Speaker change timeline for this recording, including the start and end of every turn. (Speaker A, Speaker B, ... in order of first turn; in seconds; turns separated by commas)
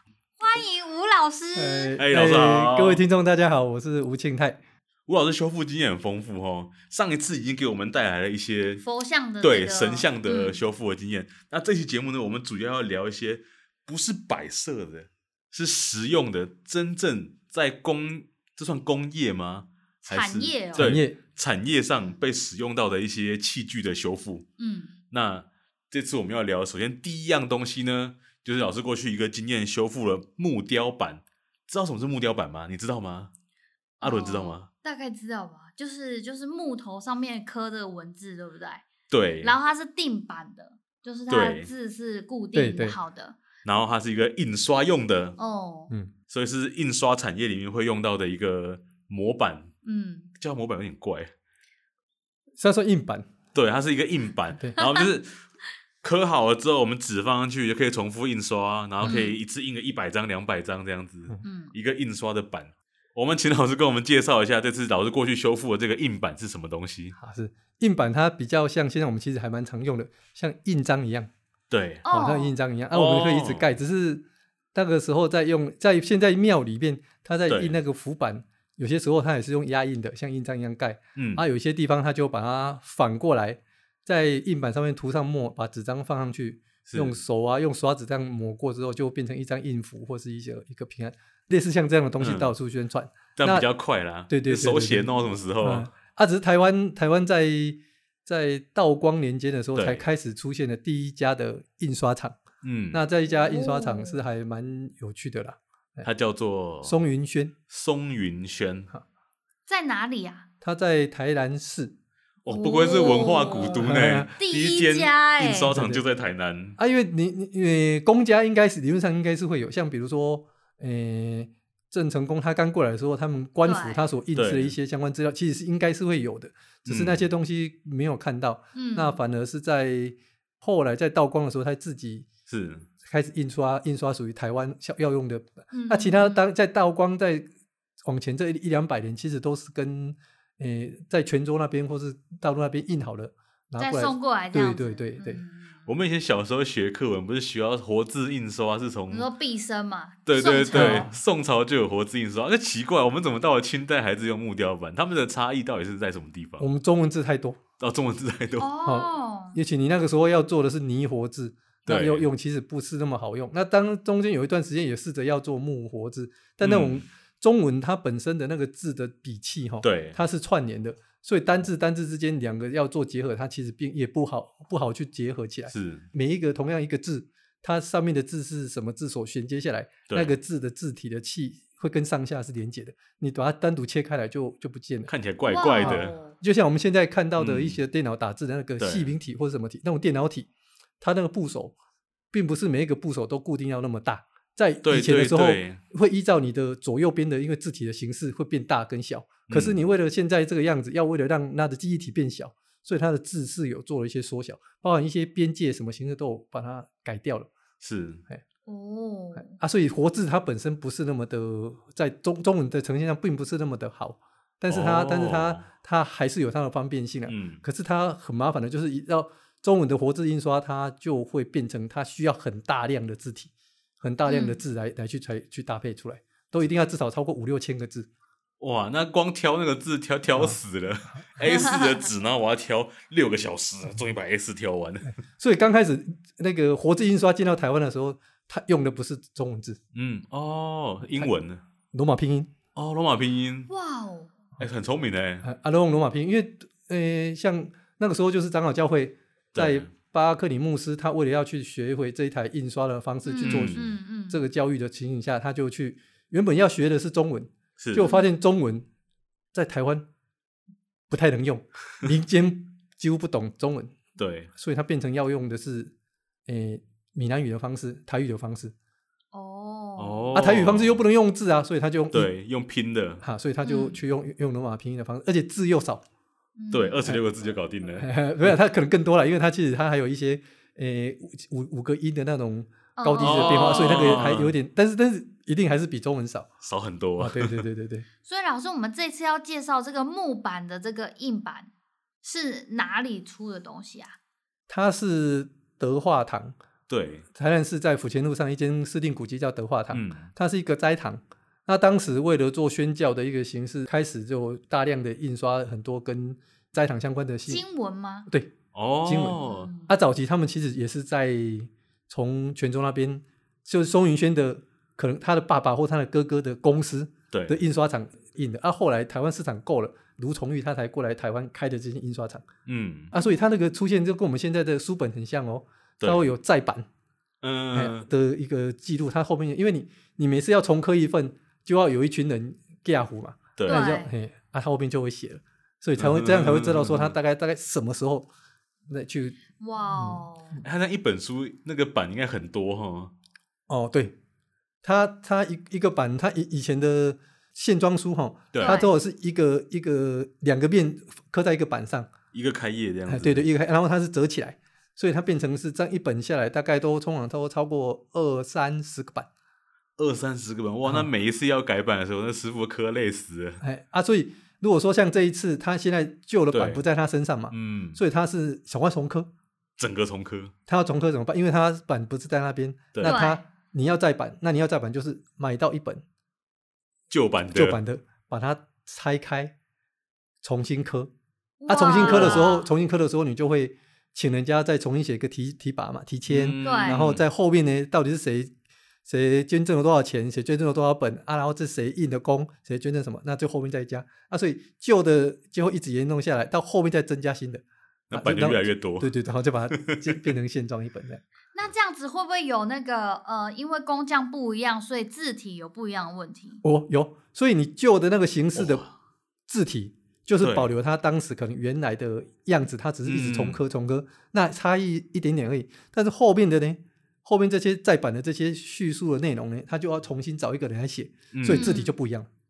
Speaker A: 0.4-1.9, Speaker B: 1.5-4.6, Speaker C: 2.0-3.0, Speaker C: 5.1-8.8, Speaker A: 8.8-10.6, Speaker C: 9.4-24.5, Speaker A: 20.0-21.0, Speaker B: 20.8-21.2, Speaker A: 24.6-24.9, Speaker C: 25.1-33.3, Speaker C: 34.0-34.7, Speaker A: 34.0-38.9, Speaker C: 39.1-39.5, Speaker A: 39.4-43.4, Speaker C: 41.3-41.7, Speaker B: 42.5-43.0, Speaker C: 43.6-45.4, Speaker A: 45.4-45.9, Speaker C: 46.3-49.7, Speaker A: 49.8-50.3, Speaker C: 50.4-51.3, Speaker B: 52.6-53.3, Speaker C: 53.5-55.3, Speaker A: 54.8-55.0, Speaker C: 56.0-67.2, Speaker A: 59.0-59.4, Speaker A: 61.4-61.7, Speaker B: 67.2-71.3, Speaker C: 71.7-72.0, Speaker A: 72.0-72.5, Speaker B: 72.1-93.7, Speaker C: 72.9-73.7, Speaker C: 77.5-77.8, Speaker C: 81.2-81.4, Speaker C: 86.8-87.2, Speaker C: 92.2-92.5, Speaker C: 93.3-95.9, Speaker B: 94.3-102.4, Speaker C: 99.7-100.0, Speaker C: 102.6-103.0, Speaker B: 102.9-106.1, Speaker A: 103.3-104.2, Speaker C: 106.0-107.0, Speaker B: 106.8-107.5, Speaker C: 107.7-108.9, Speaker A: 109.7-110.5, Speaker B: 110.6-111.9, Speaker C: 112.4-116.8, Speaker A: 112.5-115.7, Speaker B: 113.8-114.3, Speaker B: 115.7-116.0, Speaker B: 116.8-132.3, Speaker A: 123.6-124.0, Speaker C: 124.3-124.7, Speaker C: 126.8-127.2, Speaker A: 128.7-129.2, Speaker C: 132.5-132.9, Speaker B: 133.0-137.4, Speaker A: 135.7-136.4, Speaker B: 138.0-145.4, Speaker A: 143.8-145.8, Speaker C: 145.8-149.3, Speaker A: 149.1-151.1, Speaker C: 150.3-156.7, Speaker B: 150.7-151.1, Speaker B: 156.6-157.6, Speaker C: 157.8-158.7, Speaker A: 158.6-159.6, Speaker B: 158.8-185.1, Speaker C: 161.8-162.3, Speaker C: 166.6-167.0, Speaker C: 169.8-170.2, Speaker C: 175.7-176.1, Speaker C: 180.1-180.3, Speaker C: 185.1-186.2, Speaker A: 185.4-186.4, Speaker B: 185.8-190.5, Speaker C: 187.4-187.8, Speaker C: 188.8-189.1, Speaker B: 191.0-191.7, Speaker B: 192.3-207.5, Speaker C: 194.8-195.8, Speaker C: 199.5-199.8, Speaker C: 207.8-208.2, Speaker A: 208.7-209.6, Speaker B: 209.4-228.1, Speaker C: 214.7-215.7, Speaker C: 217.3-217.6, Speaker A: 224.2-224.6, Speaker C: 228.6-235.1, Speaker A: 231.4-232.0, Speaker B: 235.4-239.8, Speaker C: 239.9-241.6, Speaker B: 241.9-242.5, Speaker C: 242.7-243.7, Speaker A: 243.7-244.3, Speaker C: 244.6-245.4, Speaker B: 245.4-258.9, Speaker C: 249.5-249.9, Speaker A: 253.2-254.4, Speaker C: 253.4-253.9, Speaker C: 257.8-258.1, Speaker A: 258.0-258.3, Speaker B: 259.5-260.1, Speaker B: 261.1-264.0, Speaker C: 264.2-264.5, Speaker B: 264.5-265.9, Speaker B: 266.5-268.7, Speaker A: 269.3-270.3, Speaker C: 270.0-271.0, Speaker B: 270.3-272.3, Speaker C: 272.1-273.2, Speaker B: 273.2-276.0, Speaker A: 273.6-274.0, Speaker A: 276.6-277.0, Speaker C: 276.7-278.5, Speaker B: 278.0-286.5, Speaker A: 283.0-283.9, Speaker C: 283.2-284.5, Speaker C: 286.6-287.6, Speaker B: 287.2-288.1, Speaker A: 288.2-291.7, Speaker A: 292.2-294.1, Speaker B: 294.7-296.6, Speaker C: 296.9-297.2, Speaker B: 297.3-307.6, Speaker C: 299.9-300.3, Speaker A: 307.5-308.3, Speaker B: 308.3-308.5, Speaker C: 308.7-309.7, Speaker B: 309.0-322.5, Speaker A: 309.4-309.9, Speaker C: 317.3-317.6, Speaker C: 322.6-323.1, Speaker B: 323.1-326.9, Speaker A: 323.1-323.5, Speaker C: 326.0-326.2, Speaker C: 327.4-328.1, Speaker B: 327.7-338.3, Speaker C: 333.6-333.9, Speaker A: 333.6-334.1, Speaker C: 336.0-337.1, Speaker B: 338.9-340.2, Speaker A: 339.6-340.6, Speaker C: 340.6-343.1, Speaker B: 343.7-344.1, Speaker B: 344.8-352.1, Speaker C: 348.5-348.8, Speaker A: 348.6-348.9, Speaker C: 352.3-353.4, Speaker B: 353.1-359.3, Speaker C: 360.0-363.6, Speaker B: 363.6-369.3, Speaker C: 366.5-366.8, Speaker C: 367.5-368.0, Speaker C: 369.8-370.5, Speaker B: 370.7-376.0, Speaker C: 372.9-373.2, Speaker A: 373.0-373.4, Speaker C: 377.1-377.8, Speaker B: 377.5-379.5, Speaker B: 380.4-381.1, Speaker A: 381.6-382.7, Speaker B: 381.7-388.5, Speaker C: 381.9-382.5, Speaker C: 386.3-387.2, Speaker A: 386.6-387.0, Speaker B: 389.0-401.2, Speaker C: 398.1-399.1, Speaker C: 399.7-400.2, Speaker A: 401.5-406.6, Speaker B: 406.6-408.9, Speaker C: 408.6-408.9, Speaker B: 409.5-422.3, Speaker C: 410.4-410.7, Speaker C: 413.1-413.6, Speaker C: 421.3-421.8, Speaker A: 421.5-421.9